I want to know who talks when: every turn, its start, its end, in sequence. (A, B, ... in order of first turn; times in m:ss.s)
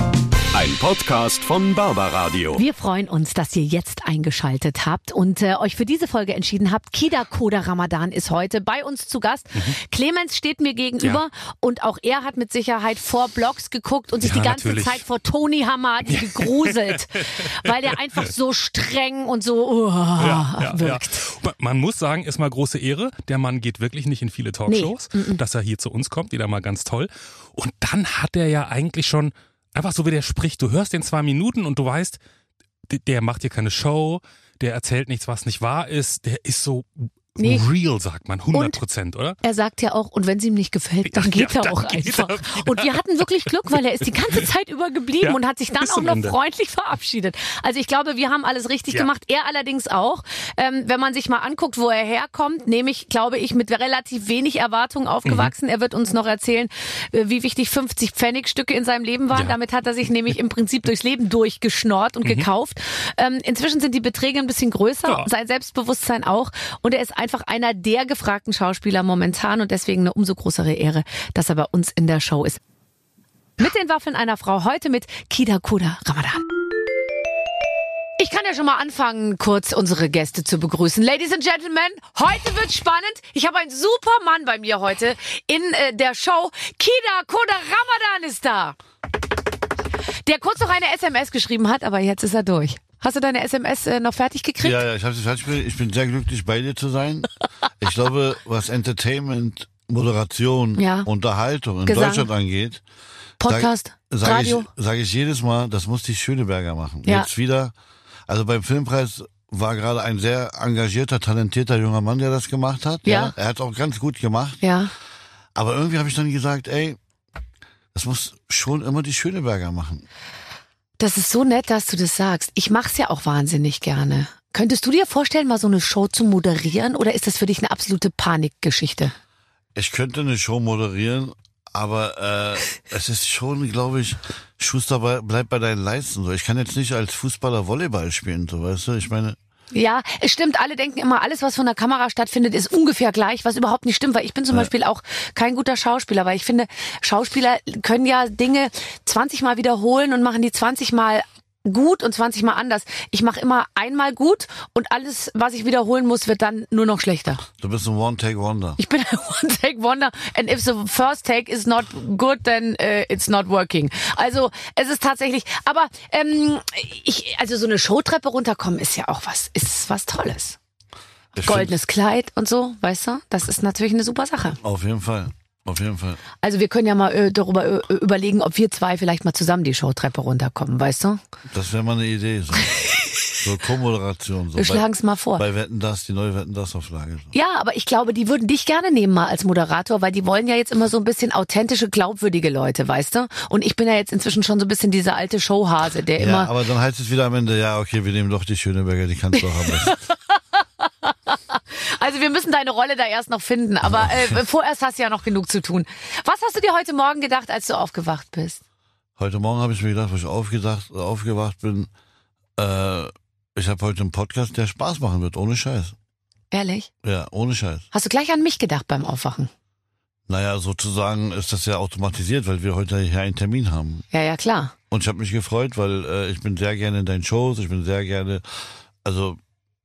0:00.5-0:02.6 A
0:02.6-0:21.2 B
0:14.2-0:15.0 C
0:16.1-0:17.7 C
0:20.2-0:32.2 C
0:24.7-0:25.4 B
0:32.9-0:39.4 C
0:37.4-0:37.7 B
0:38.5-0:38.8 B
0:39.4-1:12.6 B
0:41.0-0:43.2 C
0:45.2-0:46.4 C
0:55.2-0:55.5 C
1:02.2-1:02.5 C
1:13.6-1:16.4 B
1:18.2-1:28.8 B
1:30.2-1:34.8 B
1:34.6-1:42.8 D
1:40.8-1:41.1 B
1:41.8-1:42.3 B
1:43.4-1:44.7 B
1:43.4-1:47.8 D
1:48.3-1:54.6 D
1:53.0-1:53.3 B
1:54.6-1:54.9 B
1:55.5-1:57.0 D
1:57.9-2:00.0 D
2:01.0-2:09.1 B
2:09.8-2:19.4 D
2:19.7-2:37.4 B
2:37.6-2:38.8 D
2:38.8-2:50.6 B
2:51.3-2:51.8 D
2:51.4-2:54.6 B
2:54.6-2:56.2 D
2:56.4-3:01.2 B
3:01.5-3:04.8 D
3:04.6-3:05.4 B
3:05.4-3:07.3 D
3:07.3-3:16.5 B
3:16.2-3:20.0 D
3:19.6-3:28.6 B
3:24.0-3:24.3 D
3:29.2-3:31.9 D
3:32.6-3:35.9 D
3:36.5-3:36.9 B
3:37.0-3:37.8 D
3:37.9-3:39.5 B
3:40.3-3:44.0 D
3:44.1-3:44.7 B
3:44.9-3:49.4 D